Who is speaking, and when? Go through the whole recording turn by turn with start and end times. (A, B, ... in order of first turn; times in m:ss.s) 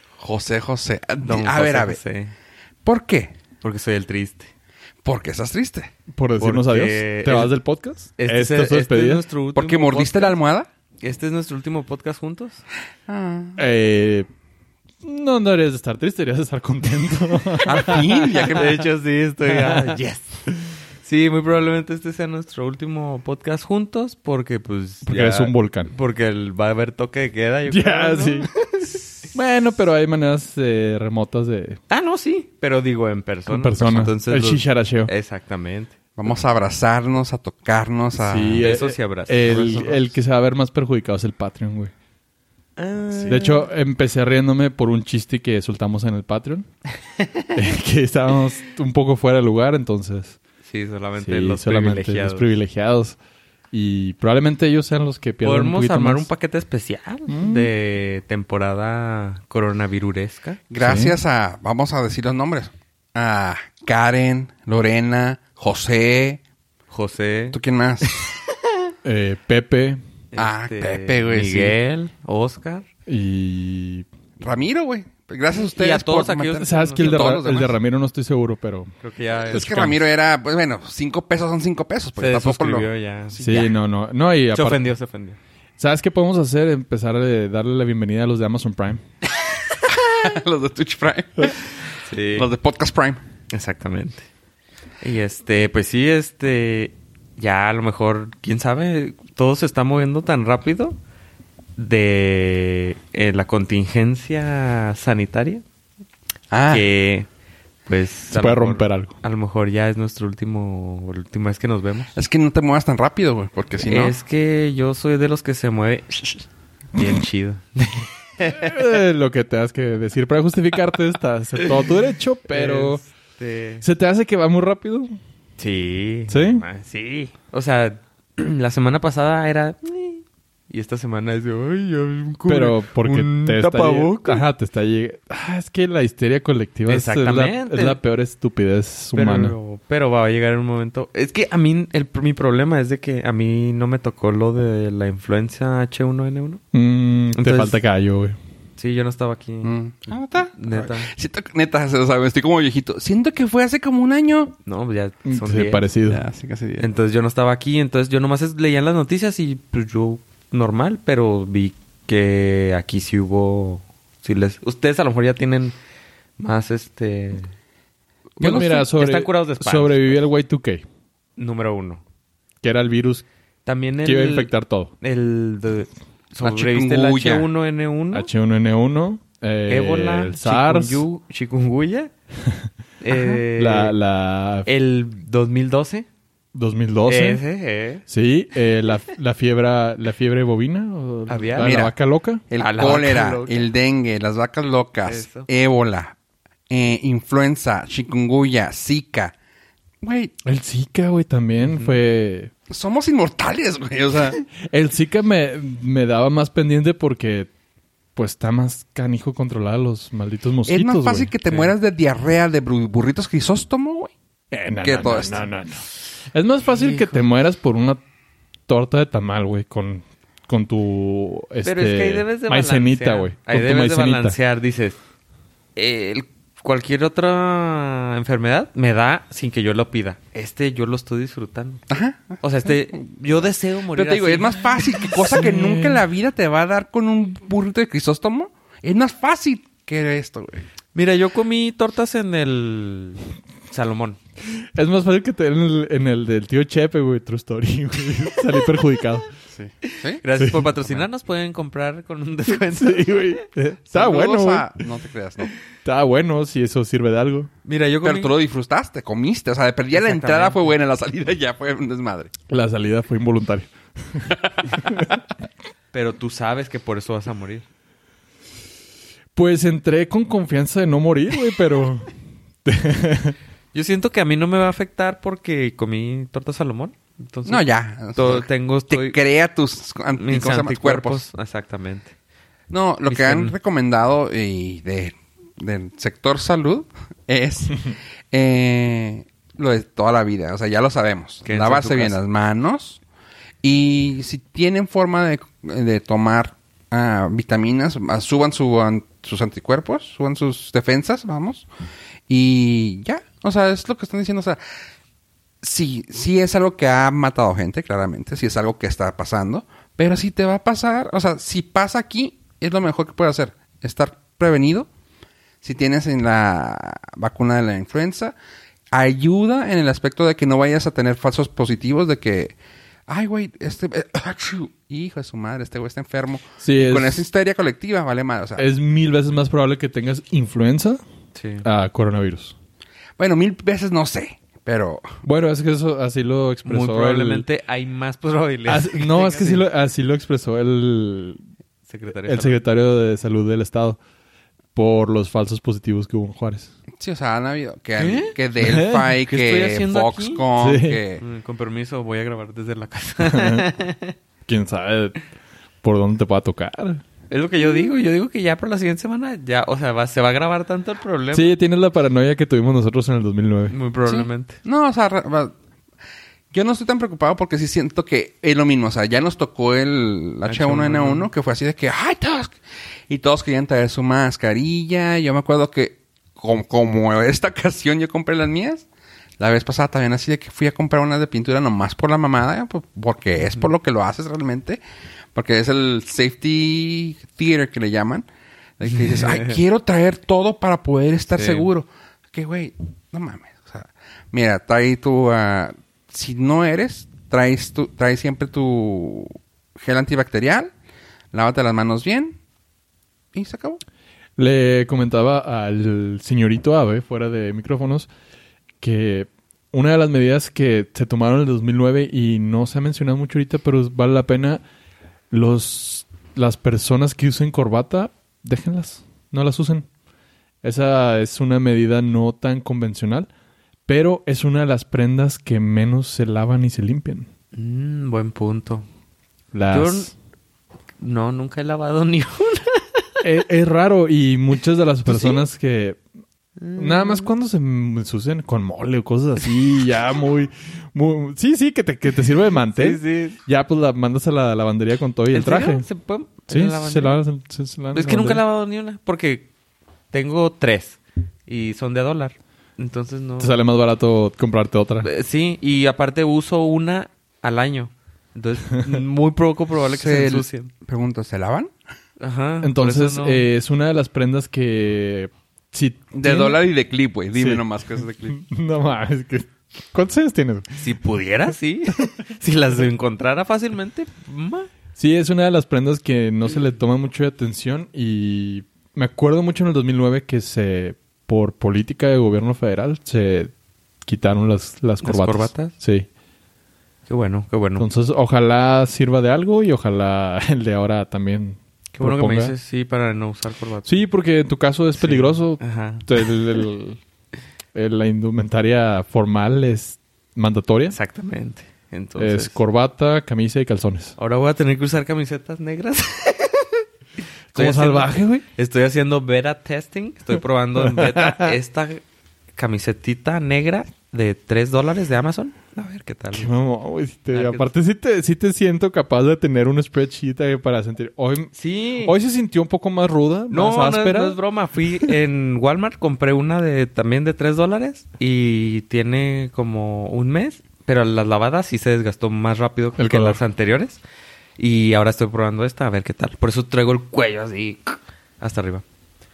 0:00.2-0:02.0 A
0:01.2-0:02.3 B
0:02.8-0:03.3 A
0:03.6-0:04.5 B
0:05.0-0:05.9 A
0:06.1-0:09.2 C
0:06.4-0:07.6 B
0:08.2-0:10.4 B
0:09.5-0:10.7 A
0:11.0-0:12.6 B
0:13.1-0:13.6 A
0:13.6-0:14.3 C
0:15.0-0:18.7 C
0:17.6-0:18.8 A
0:17.8-0:29.3 B
0:19.5-0:20.0 C
0:25.0-0:25.9 C
0:27.7-0:28.5 C
0:29.3-0:31.8 C
0:31.9-0:35.9 B
0:33.5-0:35.1 C
0:36.2-0:38.7 A
0:38.2-0:41.9 C
0:38.6-0:40.1 B
0:42.8-0:43.7 B
0:43.2-0:46.7 C
0:47.2-0:47.5 B
0:47.6-0:50.4 C
0:50.6-0:52.5 B
0:51.2-0:53.2 C
0:53.7-0:56.3 C
0:55.4-1:00.6 B
0:57.3-0:57.7 C
1:00.7-1:06.4 A
1:00.8-1:01.2 C
1:06.9-1:08.3 B
1:07.5-1:08.3 A
1:09.0-1:10.0 C
1:10.3-1:12.9 B
1:10.4-1:11.8 A
1:13.1-1:14.1 C
1:14.4-1:17.7 A
1:15.5-1:17.4 B
1:16.6-1:18.9 C
1:19.0-1:19.9 B
1:19.5-1:22.9 A
1:19.5-1:20.0 C
1:22.2-1:23.7 B
1:23.4-1:24.8 C
1:24.5-1:25.4 B
1:25.8-1:29.0 C
1:29.9-1:33.2 A
1:32.0-1:32.5 B
1:33.5-1:34.3 B
1:35.0-1:41.0 B
1:41.8-1:45.6 B
1:46.5-1:46.8 A
1:46.7-1:47.3 B
1:47.9-1:52.1 B
1:48.3-1:49.1 C
1:52.2-1:54.2 A
1:53.8-1:58.8 B
1:58.5-2:03.0 C
2:02.5-2:03.8 B
2:03.8-2:05.2 C
2:05.6-2:14.4 B
2:06.3-2:06.6 C
2:12.5-2:19.6 C
2:16.9-2:18.0 B
2:19.2-2:26.6 B
2:26.7-2:28.4 C
2:27.4-2:27.8 B
2:28.8-2:29.7 B
2:29.6-2:34.5 A
2:30.6-2:31.1 B
2:34.7-2:35.9 B
2:35.2-2:36.2 C
2:36.1-2:36.9 A
2:36.8-2:45.8 B
2:46.4-2:47.5 B
2:48.4-2:50.2 B
2:48.4-2:50.8 C
2:51.4-2:52.0 B
2:52.6-2:53.2 C
2:53.7-2:58.3 B
2:54.0-2:54.9 C
2:56.4-2:57.5 A
2:58.1-3:01.0 C
2:59.7-3:02.1 B
3:02.4-3:04.7 C
3:03.0-3:04.0 B
3:04.6-3:06.1 B
3:06.5-3:07.4 C
3:07.1-3:08.0 B
3:08.1-3:12.4 C
3:11.3-3:11.8 B
3:11.6-3:12.0 A
3:12.5-3:16.2 A
3:12.6-3:13.7 B
3:15.0-3:15.5 B
3:16.7-3:19.3 A
3:20.0-3:20.3 A
3:20.4-3:22.5 C
3:21.6-3:22.0 B
3:22.7-3:24.4 A
3:24.1-3:27.5 C
3:28.2-3:31.3 C
3:30.7-3:34.1 A
3:34.5-3:38.0 C
3:34.8-3:35.5 A
3:36.7-3:37.2 B
3:38.7-3:44.4 C
3:41.6-3:45.0 B
3:45.8-3:51.8 B
3:51.9-3:52.4 A
3:52.4-3:54.8 B
3:54.0-4:00.6 A
3:55.1-3:56.0 C
4:00.9-4:04.2 B
4:04.6-4:09.3 C
4:09.5-4:10.2 A
4:09.8-4:13.4 B
4:10.4-4:10.9 C
4:12.7-4:14.7 C
4:13.9-4:15.5 A
4:15.8-4:17.5 C
4:17.6-4:18.4 B
4:18.0-4:22.3 A
4:19.9-4:20.7 B
4:22.5-4:25.2 C
4:25.9-4:27.7 B
4:29.3-4:32.1 C
4:32.6-4:33.4 C
4:33.7-4:37.6 B
4:37.5-4:41.2 A
4:38.2-4:39.2 B
4:40.2-4:42.1 B
4:42.7-4:53.0 A
4:43.1-4:43.6 B
4:51.4-4:52.2 B
4:53.6-5:01.7 A
5:02.3-5:04.6 A
5:05.6-5:14.9 A
5:15.6-5:18.3 A
5:18.9-5:22.6 A
5:23.1-5:28.7 A
5:26.6-5:27.2 C
5:28.6-5:31.0 C
5:31.4-5:31.7 B
5:31.6-5:32.6 C
5:33.2-5:35.2 A
5:35.2-5:37.5 C
5:36.6-5:39.7 B
5:38.7-5:41.4 C
5:41.9-5:42.6 B
5:42.2-5:44.0 C
5:44.8-5:46.7 C
5:47.0-5:51.2 A
5:48.0-5:48.4 B
5:48.6-5:49.2 C
5:49.3-5:50.4 B
5:50.6-5:51.0 C
5:51.2-5:54.2 B
5:53.2-5:53.7 C
5:54.5-5:55.2 C
5:55.8-5:57.0 C
5:57.3-6:01.5 B
6:01.3-6:03.8 C
6:03.7-6:04.6 B
6:04.1-6:05.5 A
6:06.5-6:12.6 A
6:10.5-6:11.3 B
6:13.1-6:18.9 A
6:19.4-6:24.8 A
6:25.3-6:28.3 A
6:28.8-6:40.7 A
6:28.9-6:29.6 B
6:31.3-6:31.7 B
6:41.3-6:42.4 A
6:43.3-6:43.8 A
6:44.4-6:48.1 C
6:48.8-6:54.6 C
6:55.3-6:59.9 C
7:00.6-7:03.3 C
7:03.9-7:07.3 C
7:07.5-7:08.9 B
7:09.5-7:10.1 C
7:09.7-7:10.1 B
7:11.0-7:13.0 B
7:13.2-7:16.0 C
7:15.1-7:15.4 B
7:16.6-7:17.3 B
7:16.8-7:25.9 C
7:22.7-7:23.4 B
7:25.3-7:27.2 B
7:26.5-7:28.4 C
7:27.9-7:29.5 B
7:30.1-7:33.6 B
7:33.4-7:35.1 C
7:35.0-7:40.7 B
7:39.9-7:41.7 A
7:42.2-7:43.5 B
7:42.6-7:46.6 C
7:46.1-7:48.4 A
7:47.4-7:47.6 C
7:48.3-7:50.9 C
7:50.7-7:54.7 B
7:55.0-8:03.5 C
8:04.0-8:06.1 C
8:05.0-8:05.8 B
8:07.1-8:07.9 B
8:07.8-8:12.5 C
8:11.9-8:14.0 B
8:13.8-8:17.0 C
8:15.0-8:16.6 B
8:17.7-8:21.0 C
8:20.9-8:22.6 B
8:22.2-8:24.1 C
8:24.2-8:26.8 B
8:27.5-8:28.4 C
8:27.5-8:32.0 B
8:30.8-8:31.6 C
8:32.6-8:36.5 B
8:36.3-8:41.5 C
8:37.3-8:37.7 B
8:41.5-8:42.2 B
8:42.0-8:44.4 C
8:43.5-8:54.0 B
8:53.0-8:53.4 C
8:54.6-8:58.8 B